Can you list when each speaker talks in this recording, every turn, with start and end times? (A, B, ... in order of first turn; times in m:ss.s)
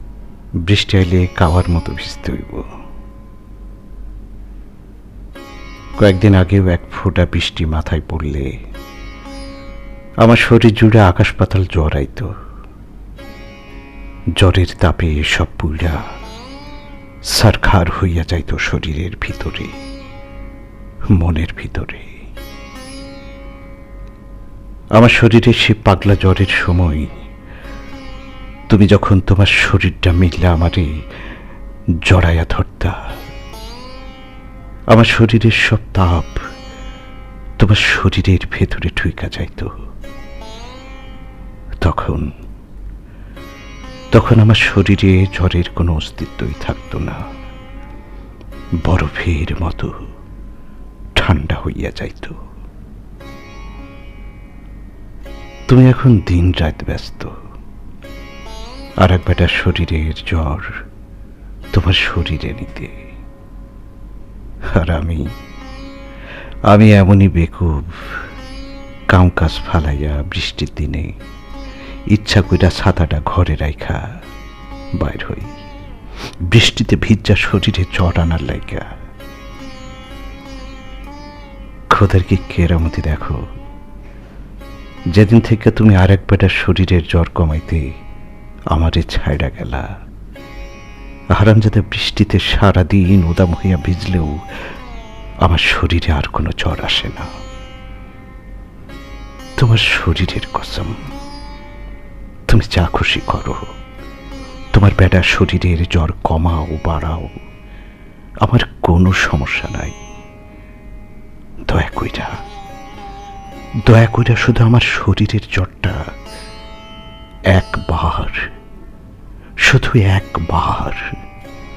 0:00.7-0:02.7 A
0:06.0-0:08.5 A
0:10.2-0:12.3 A
0:14.4-0:16.0 A
0:17.3-0:19.7 A
0:21.2-0:22.1 A
0:25.0-0:27.1 A
0:28.7-0:30.9 A
0:32.0-0:33.0 A
0:34.9-0:36.4 A
0:37.6-0:39.7 A
0:41.8-0:42.3 A
0:44.1-0:47.2 A
0:48.8-0:50.1 A
0:51.2-0:52.4 A
0:55.7-0:57.3 A
0:59.0-1:00.7 A
1:01.7-1:02.9 A
1:04.7-1:05.2 A
1:06.7-1:08.2 A
1:09.1-1:11.1 A
1:12.1-1:14.0 A
1:15.0-1:15.5 A
1:16.5-1:18.9 A
1:21.9-1:23.4 A
1:25.1-1:27.8 A
1:28.7-1:29.9 A
1:31.3-1:34.4 A
1:35.4-1:37.3 A
1:39.6-1:40.9 A
1:42.5-1:43.6 A
1:44.7-1:47.4 A
1:48.4-1:49.9 A
1:51.7-1:52.4 A
1:53.8-1:56.0 A
1:57.5-1:58.4 A
1:59.6-2:01.0 A